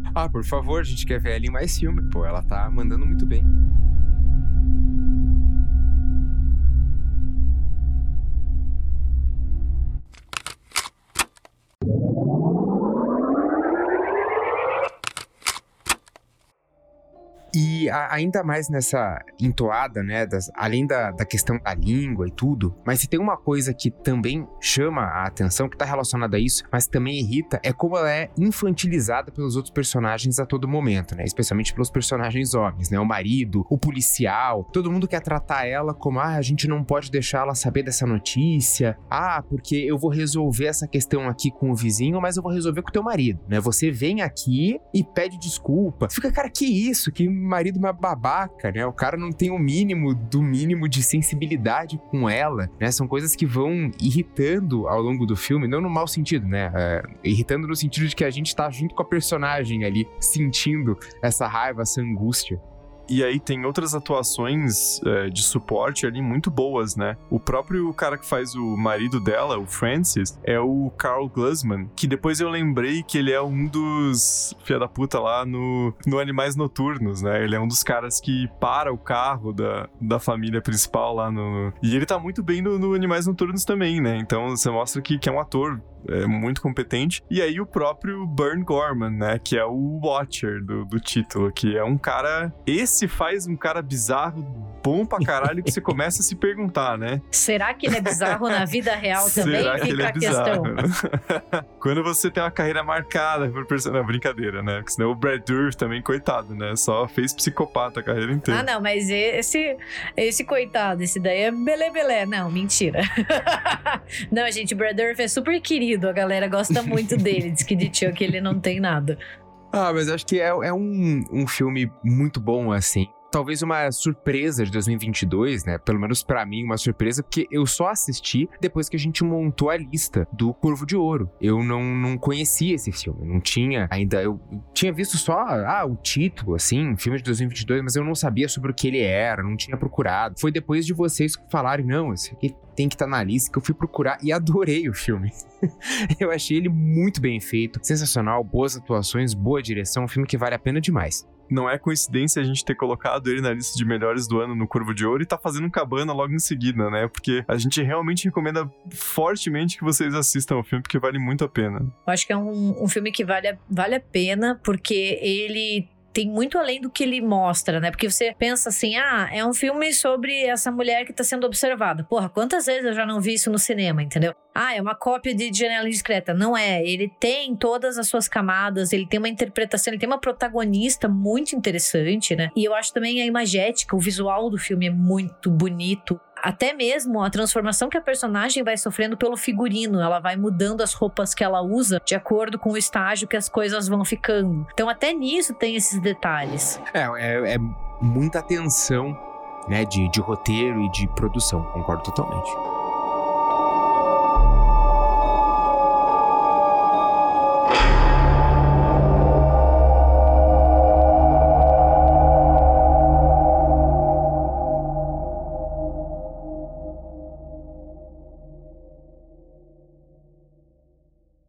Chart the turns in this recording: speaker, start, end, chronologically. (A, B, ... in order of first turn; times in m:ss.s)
0:00.2-0:03.5 A
0:17.5-1:02.6 A
1:03.1-1:37.2 B
1:37.3-1:40.7 C
1:39.3-1:48.6 B
1:48.5-1:59.2 C
1:59.7-2:31.2 A
2:31.5-2:41.9 B
2:42.1-3:16.8 C
3:16.9-3:22.6 A